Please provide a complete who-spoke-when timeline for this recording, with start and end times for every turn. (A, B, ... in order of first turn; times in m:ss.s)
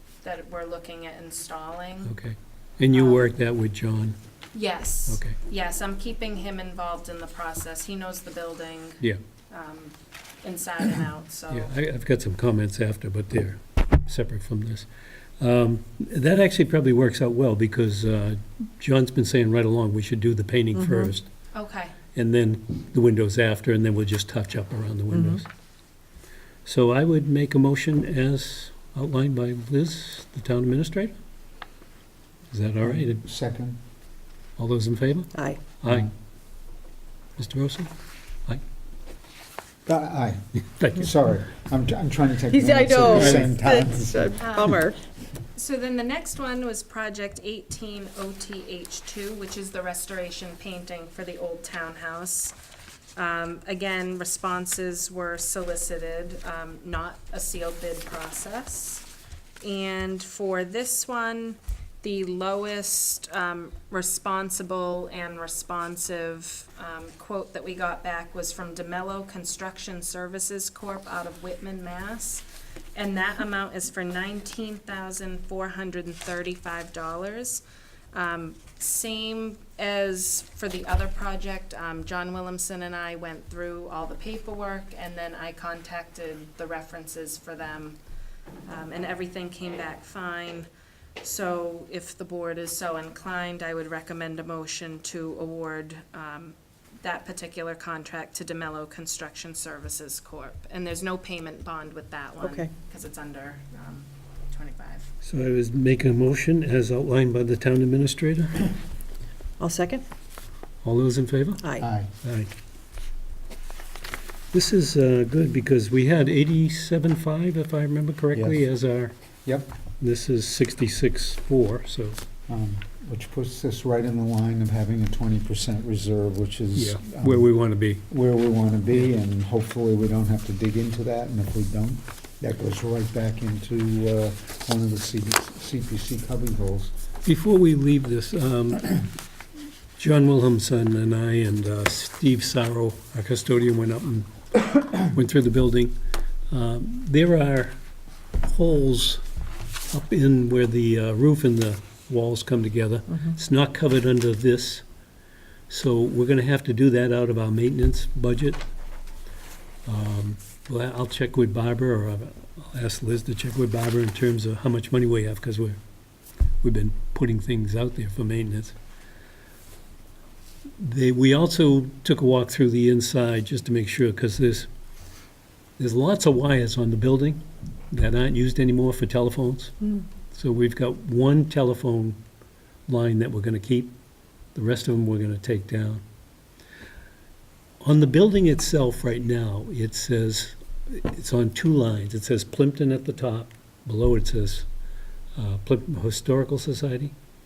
0:00.2-0:02.1 A
0:02.0-0:04.2 B
0:02.9-0:03.3 A
0:04.5-0:11.7 A
0:05.1-0:05.4 B
0:11.5-0:14.9 B
0:15.4-0:21.3 B
0:20.8-0:21.1 C
0:21.5-0:22.0 A
0:22.2-0:25.5 B
0:25.1-0:25.4 C
0:26.6-0:31.2 B
0:32.5-0:33.2 B
0:32.8-0:33.8 D
0:34.6-0:36.1 B
0:35.3-0:35.6 C
0:37.4-0:37.9 B
0:39.9-0:44.6 D
0:40.7-0:41.1 B
0:42.5-0:45.0 C
0:43.1-0:43.4 B
0:44.4-0:44.9 A
0:45.5-0:52.6 A
0:53.2-0:59.1 A
0:59.6-1:28.0 A
1:28.7-1:30.7 A
1:31.2-1:45.1 A
1:42.4-1:42.7 C
1:45.2-1:48.7 B
1:49.6-1:50.1 C
1:50.8-1:51.7 B
1:51.6-1:51.9 C
1:51.8-1:52.1 D
1:52.2-1:52.5 B
1:54.5-1:59.1 B
1:58.3-1:58.6 D
2:00.0-2:02.2 B
2:02.5-2:07.5 D
2:06.8-2:08.1 B
2:08.1-2:16.9 D
2:17.2-2:19.1 B
2:20.0-2:26.0 B
2:26.5-2:27.8 B
2:28.4-2:29.2 B
2:29.9-2:34.8 B
2:35.7-2:38.7 B
2:39.9-2:45.8 B
2:46.6-2:48.8 B
2:50.8-2:54.7 B
2:55.8-2:59.8 B
3:00.3-3:02.2 B
3:02.9-3:04.0 B
3:04.6-3:06.0 B
3:07.8-3:14.7 B
3:15.4-3:17.1 B